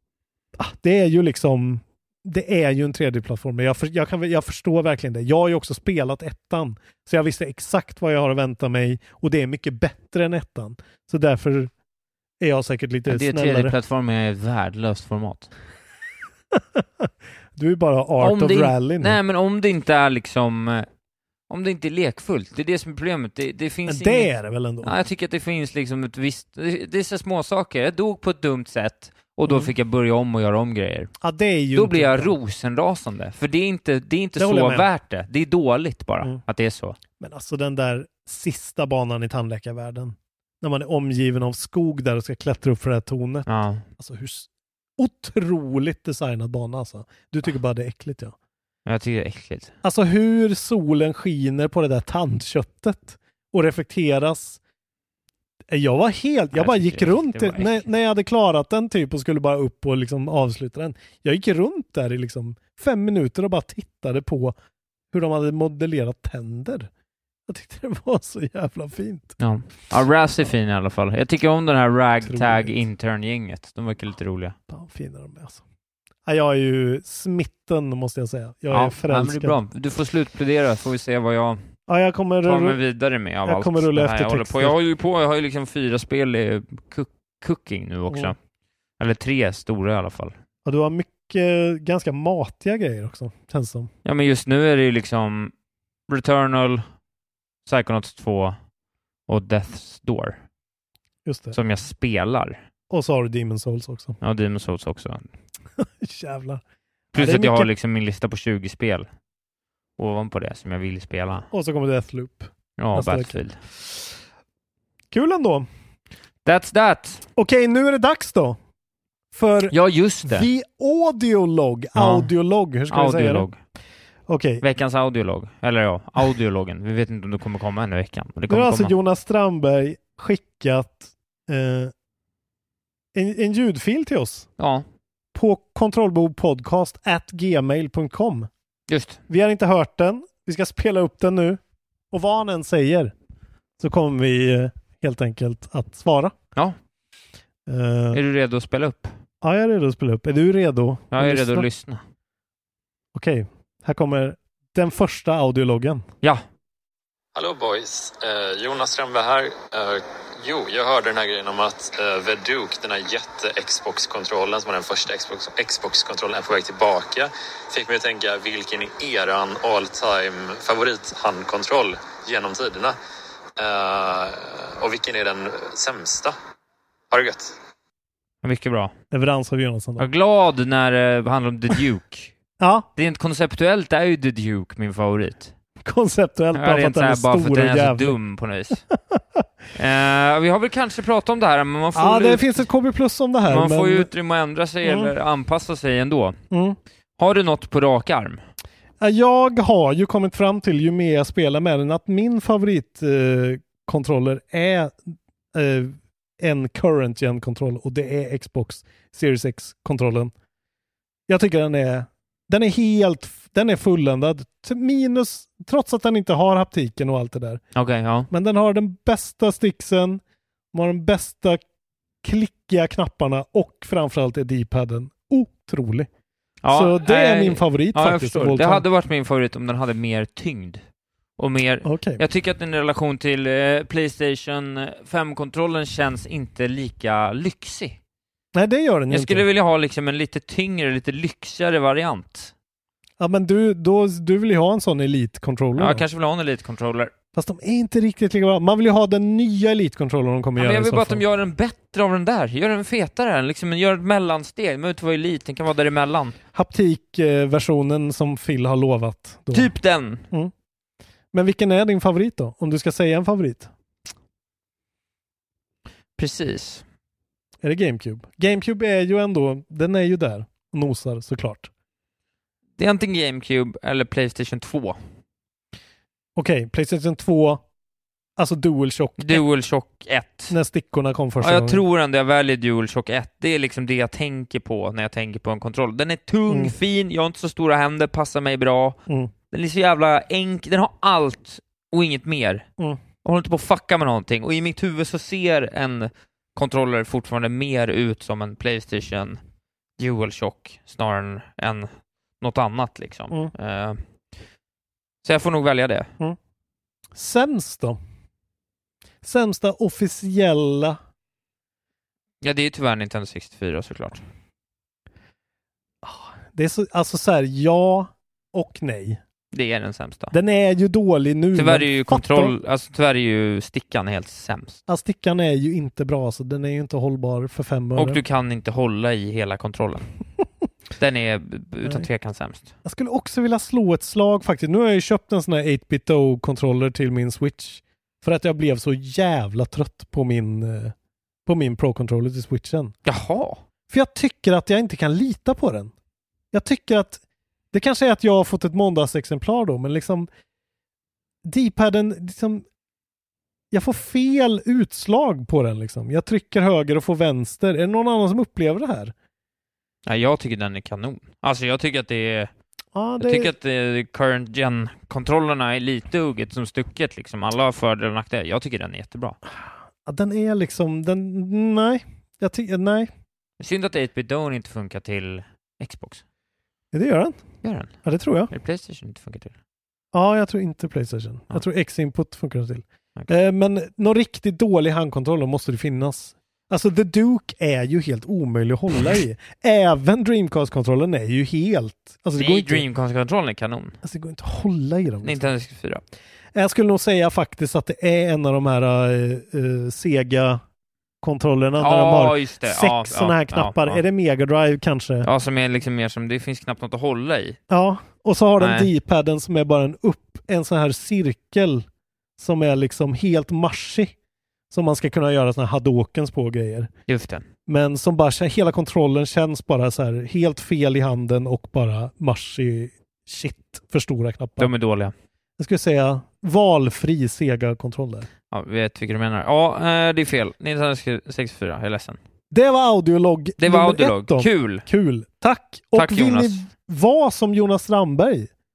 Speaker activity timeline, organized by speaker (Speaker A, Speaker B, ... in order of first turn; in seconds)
Speaker A: 0.6-11.7, 12.4-13.7, 16.5-19.2, 23.9-24.9, 31.2-32.3, 34.4-34.9, 37.2-48.3, 49.8-54.6, 55.7-64.5, 65.1-66.9, 67.5-69.4, 72.2-72.8, 74.7-75.6, 76.2-79.6, 81.9-82.8, 83.4-84.7, 88.1-88.3, 90.6-93.9, 101.2-101.6, 102.9-104.2, 105.8-106.6, 107.1-107.7, 111.5-114.1, 115.1-115.7, 117.3-118.6, 119.3-119.7, 120.2-123.5, 124.3-124.6, 128.5-131.9, 133.1-134.5, 135.3-138.5, 139.3-141.6, 142.1-143.1, 143.8-146.3, 147.7-148.2, 149.4-151.7, 153.1-156.1, 179.1-180.1, 182.6-182.9, 185.8-188.2, 188.9-189.4, 191.9-194.1, 194.8-195.1, 196.5-196.8, 199.0-210.3, 211.3-217.6, 218.3-220.2, 220.7-221.6, 222.2-226.1, 226.7-228.8, 231.8-232.2, 238.5-239.5, 243.2-246.0, 247.3-251.2, 256.5-259.7, 261.3-263.7, 267.6-271.7, 276.4-277.6, 278.4-279.4, 280.5-281.8, 286.5-286.7, 289.1-289.3, 307.1-308.0, 309.2-311.0, 316.0-319.2, 320.3-322.5, 324.9-328.2, 332.8-340.9, 341.4-342.9, 343.9-345.9, 346.5-347.2, 347.7-350.3, 351.4-352.6, 353.7-359.1, 362.9-363.5, 369.6-373.1, 376.9-377.4, 378.0-378.5, 380.1-392.8, 394.0-395.5, 396.5-400.6, 401.2-405.3, 407.7-411.9, 412.4-414.1, 414.7-416.9, 417.6-424.7, 425.6-428.3, 432.5-438.5
Speaker B: 13.1-15.5, 18.2-20.9, 21.5-24.3, 24.8-31.1, 31.7-37.0, 43.5-43.9, 48.9-49.7, 56.5-57.9, 69.4-74.5, 78.7-81.6, 82.4-88.4, 89.0-90.3, 94.0-95.5, 96.1-96.8, 97.7-98.6, 99.3-100.4, 101.5-102.6, 104.2-105.3, 107.1-109.1, 110.0-111.5, 112.8-113.6, 116.4-117.2, 119.7-120.5, 121.9-122.3, 122.9-123.6, 124.6-128.9, 134.6-134.8, 138.9-139.2, 148.1-149.1, 151.1-152.0, 178.4-178.9, 180.0-182.3, 182.9-185.5, 186.5-188.8, 189.7-192.7, 193.5-196.4, 197.2-198.4, 217.7-218.3, 226.6-230.8, 231.4-238.0, 239.1-242.5, 245.8-247.1, 250.6-256.4, 259.5-260.2, 266.2-266.8, 272.8-275.0, 279.2-280.5, 281.4-289.0, 289.5-292.6, 293.2-299.4, 300.0-304.0, 305.2-306.1, 312.4-314.2, 319.5-320.3, 321.5-324.8, 327.9-330.1, 331.0-332.7, 343.1-343.6, 360.1-362.5, 363.2-369.4, 373.6-376.2, 377.6-377.9, 378.5-379.5, 392.4-394.0, 395.2-396.0, 401.8-404.0, 405.2-407.6, 408.6-408.9, 417.1-417.5, 424.6-425.1, 428.5-432.2, 433.6-434.8, 435.9-436.7
Speaker C: 157.3-172.9, 173.6-176.3, 177.1-177.6